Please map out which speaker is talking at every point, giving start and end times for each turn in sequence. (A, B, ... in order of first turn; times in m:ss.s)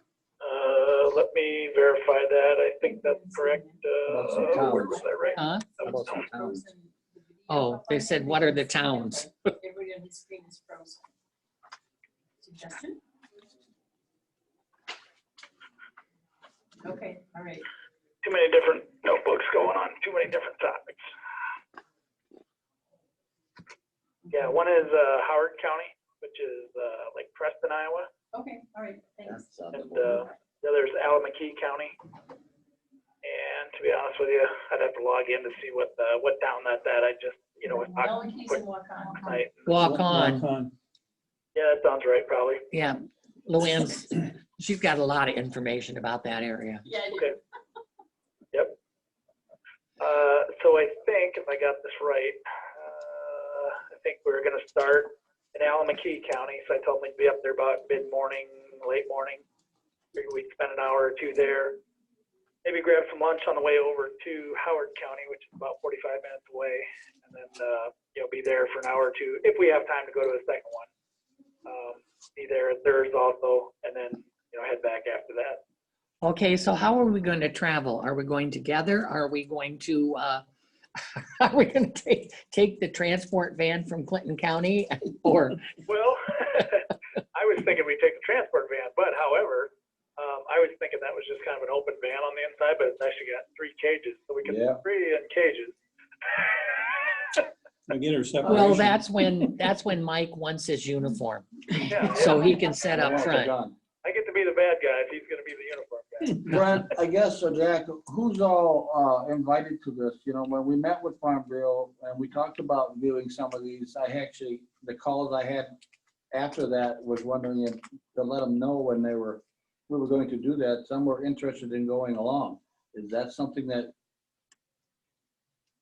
0:00.4-0:06.2 A
0:02.8-0:05.4 B
0:04.1-0:05.0 C
0:05.4-0:05.9 D
0:05.8-0:06.6 C
0:06.0-0:11.1 B
0:07.5-0:09.5 D
0:12.4-0:13.0 B
0:16.8-0:17.7 B
0:18.2-0:21.0 A
0:24.2-0:24.6 B
0:24.3-0:28.1 A
0:28.3-0:29.5 B
0:29.2-0:30.3 C
0:29.7-0:32.0 A
0:33.2-0:38.6 A
0:37.6-0:39.4 B
0:39.2-0:40.0 A
0:39.6-0:40.4 D
0:39.8-0:40.7 E
0:41.6-0:42.6 A
0:42.7-0:46.8 D
0:46.8-0:47.4 B
0:50.0-0:59.4 A
1:00.1-1:01.8 A
1:02.6-1:10.9 A
1:11.7-1:15.6 A
1:16.2-1:20.4 D
1:21.0-1:25.6 D
1:25.9-1:35.8 A
1:34.4-1:34.8 C
1:36.3-1:37.4 A
1:37.9-1:39.0 E
1:38.4-1:43.5 D
1:41.8-1:42.9 A
1:42.9-1:43.8 C
1:44.0-1:46.7 A
1:46.4-1:55.7 C
1:56.3-2:03.9 C